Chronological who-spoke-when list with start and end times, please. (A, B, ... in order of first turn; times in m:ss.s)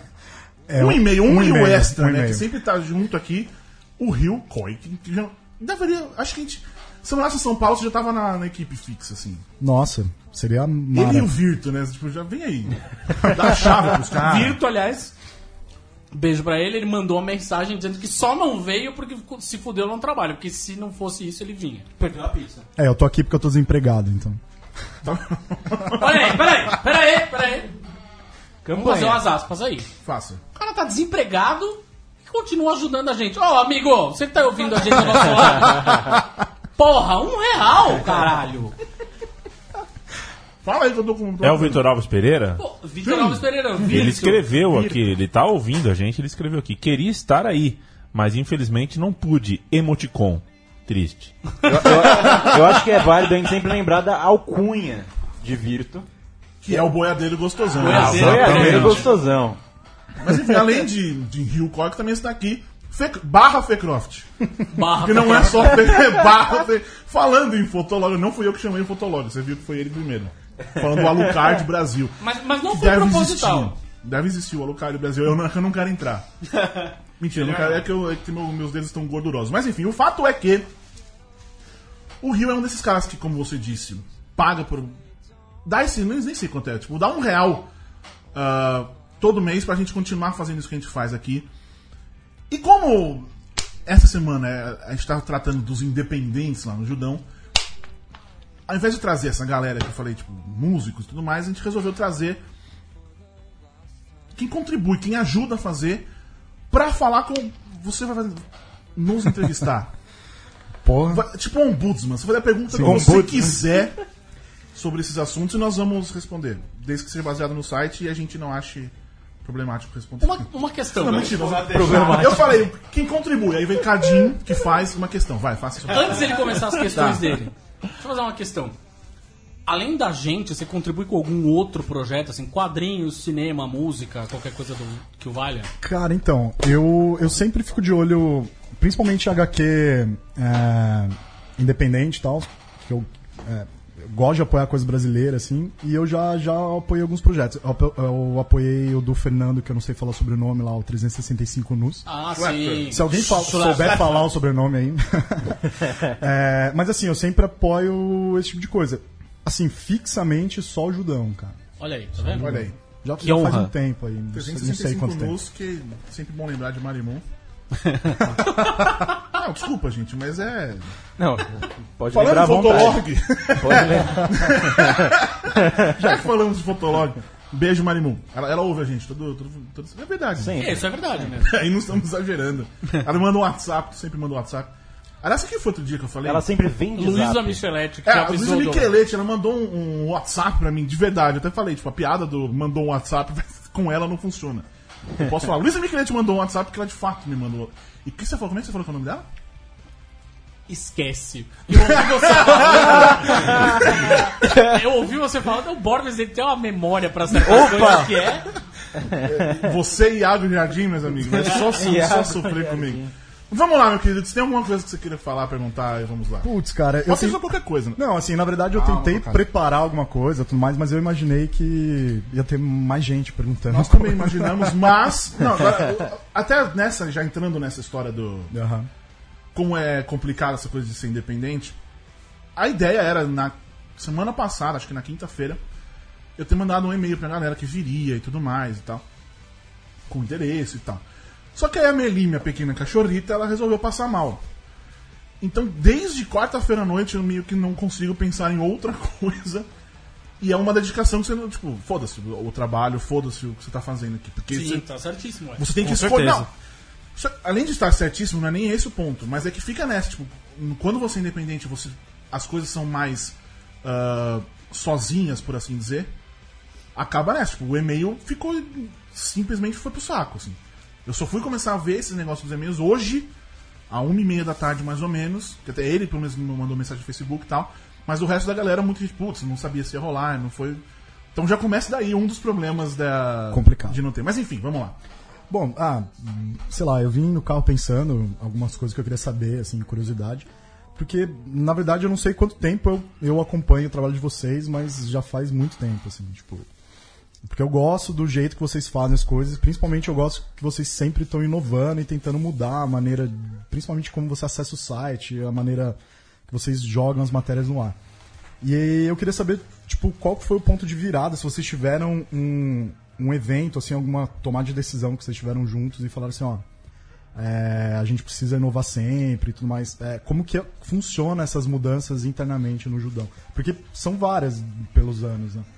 0:00.7-0:02.4 A
0:00.8-0:09.4 B
0:09.6-0:11.3 A
0:10.9-0:14.6 B
0:14.0-0:15.1 C
0:16.1-0:21.9 C
0:22.0-0:22.6 D
0:22.8-0:24.4 A
0:25.0-0:26.4 B
0:25.9-0:27.7 C
0:28.6-0:29.2 D
0:28.7-0:29.9 C
0:30.0-0:30.4 B
0:30.5-0:38.8 C
0:40.6-0:41.8 B
0:41.4-0:42.6 E
0:42.6-0:44.5 C
0:43.0-0:43.5 B
0:43.8-0:51.6 E
0:51.6-0:56.1 F
0:51.9-0:52.5 B
0:56.6-0:59.0 B
0:57.8-0:59.1 C
0:57.8-0:59.6 F
0:57.9-0:59.0 E
1:00.2-1:16.3 B
1:04.7-1:05.9 C
1:12.2-1:13.7 C
1:17.2-1:20.7 B
1:17.4-1:17.8 D
1:22.2-1:24.9 B
1:25.6-1:27.7 B
1:28.3-1:31.5 B
1:32.5-1:33.3 B
1:33.9-1:37.2 B
1:38.7-1:42.4 B
1:44.4-1:46.1 B
1:46.7-1:48.4 B
1:49.0-1:49.9 B
1:50.8-1:51.2 A
1:51.1-1:54.0 B
1:52.7-1:53.6 A
1:54.7-1:58.9 B
1:59.4-2:07.4 B
2:00.2-2:01.4 C
2:01.0-2:02.5 D
2:01.7-2:02.6 F
2:05.9-2:08.8 C
2:09.6-2:15.7 C
2:15.8-2:32.1 A
2:32.1-2:34.2 C
2:32.4-2:33.0 B
2:32.9-2:41.6 A
2:41.8-2:42.6 C
2:42.1-2:45.4 A
2:42.4-2:42.7 B
2:43.2-2:43.7 D
2:44.3-2:47.2 B
2:48.6-2:50.9 B
2:51.2-2:56.1 F
2:52.1-3:00.8 B
3:00.4-3:01.3 F
3:00.6-3:01.6 C
3:01.4-3:06.4 B
3:06.2-3:07.6 F
3:07.0-3:08.9 C
3:08.0-3:14.6 B
3:15.2-3:19.2 B
3:20.7-3:28.5 C
3:21.8-3:23.7 B
3:27.4-3:28.1 D
3:27.5-3:28.0 F
3:29.0-3:29.6 F
3:29.2-3:36.5 B
3:31.3-3:33.1 F
3:36.4-3:37.4 A
3:37.0-3:38.0 B
3:37.9-3:44.9 A
3:38.7-3:39.4 B
3:43.7-3:48.6 B
3:48.5-3:48.9 A
3:49.5-3:51.8 B
3:52.6-3:55.6 B
3:56.4-3:59.0 B
4:00.1-4:01.0 B
4:01.6-4:04.4 B
4:05.4-4:09.7 B
4:10.4-4:14.8 B
4:14.5-4:15.6 C
4:15.6-4:16.5 B
4:15.8-4:16.5 D
4:17.2-4:26.1 B
4:26.9-4:33.3 B
4:33.9-4:40.8 B
4:41.3-4:45.0 B
4:43.5-4:44.0 A
4:45.5-4:56.7 A
4:57.4-5:06.0 A
5:06.5-5:08.0 A
5:08.6-5:16.6 A
5:17.4-5:25.6 A